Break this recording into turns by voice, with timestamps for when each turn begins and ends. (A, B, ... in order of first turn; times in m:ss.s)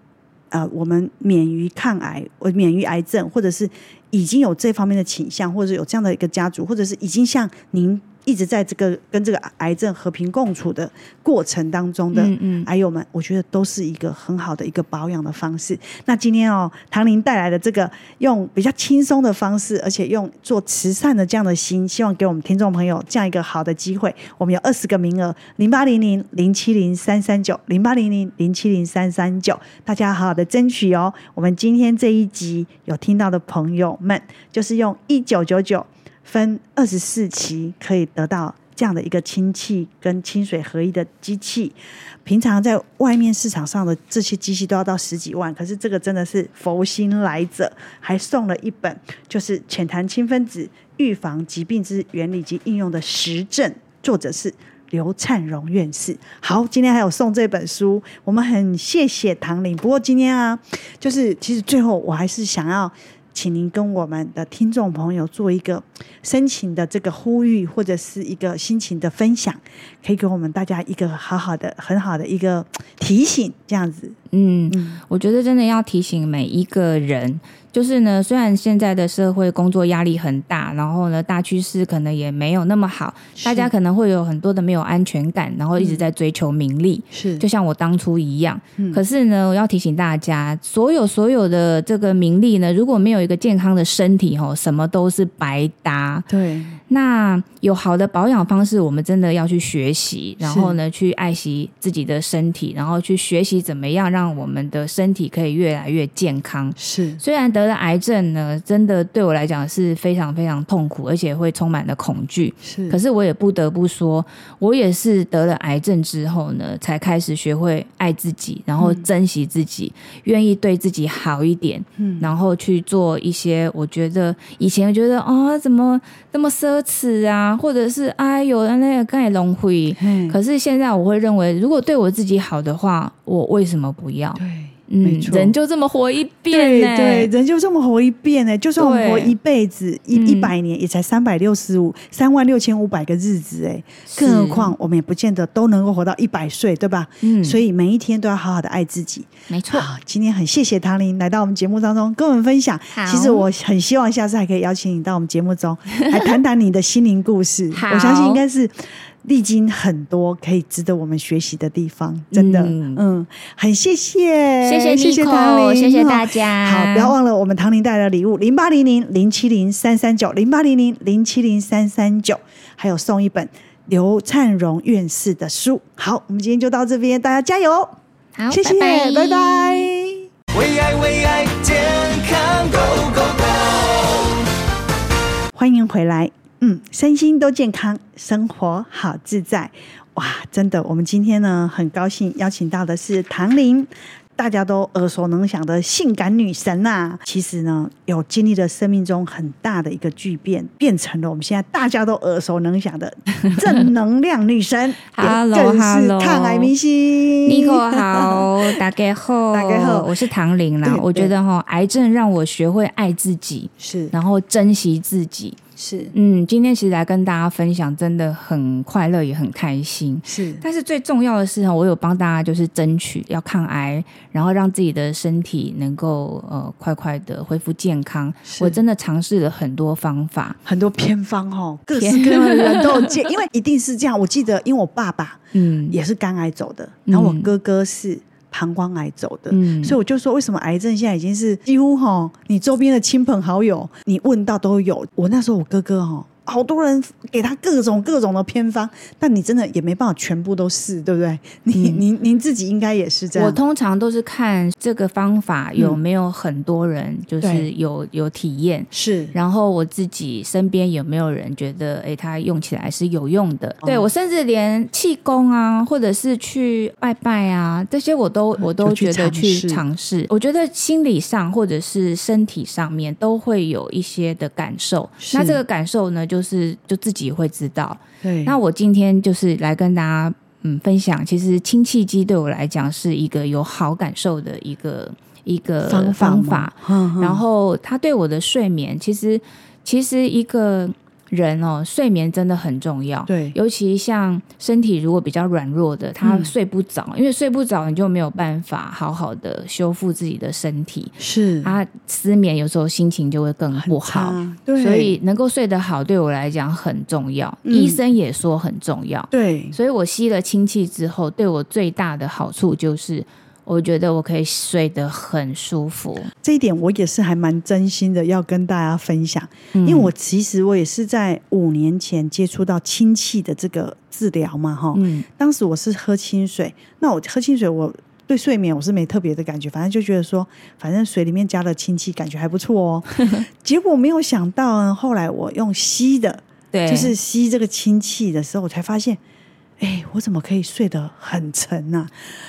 0:00.5-1:14.2 A
0:12.1-0:12.7 B
1:14.3-1:36.3 B
1:14.7-1:15.0 A
1:23.4-1:23.7 A
1:25.8-1:26.0 A
1:27.1-1:27.4 A
1:36.3-1:36.8 A
1:36.9-2:17.3 B
1:40.4-1:40.8 A
1:46.8-1:47.2 A
1:52.6-1:53.0 A
1:58.8-1:59.0 A
2:02.0-2:02.3 A
2:10.0-2:10.4 A
2:14.4-2:15.5 A
2:16.5-2:58.0 A
2:18.8-2:19.3 B
2:20.1-2:20.5 B
2:24.1-2:24.7 B
2:27.2-2:27.6 B
2:29.5-2:29.9 B
2:32.9-2:33.4 B
2:35.9-2:36.3 B
2:37.7-2:38.4 B
2:42.3-2:43.0 B
2:44.6-2:47.1 B
2:58.4-2:59.9 B
2:58.5-3:00.2 A
3:00.5-3:04.4 C
3:05.5-3:28.8 A
3:25.1-3:26.7 B
3:27.4-3:35.6 B
3:29.5-3:30.2 A
3:30.8-3:31.3 A
3:33.8-3:34.1 A
3:35.8-3:36.1 A
3:36.1-3:50.6 B
3:40.2-3:40.6 A
3:48.4-3:48.8 A
3:50.6-4:13.6 A
3:51.9-3:53.1 B
3:55.5-3:56.0 B
3:57.0-3:57.5 B
3:59.5-4:00.0 B
4:11.8-4:12.0 B
4:13.3-5:16.3 B
4:17.4-4:17.7 A
4:18.9-4:19.3 A
4:23.8-4:24.1 A
4:28.6-4:29.8 A
4:35.2-4:35.6 A
4:38.2-4:38.6 A
4:45.8-4:47.4 A
4:53.3-4:53.6 A
4:56.2-4:56.5 A
5:01.2-5:01.8 A
5:03.7-5:05.1 A
5:07.6-5:08.0 A
5:09.3-5:09.8 A
5:16.4-5:39.2 A
5:19.7-5:20.1 B
5:24.9-5:25.2 B
5:33.2-5:33.4 B
5:36.7-5:37.1 B
5:39.8-5:42.1 A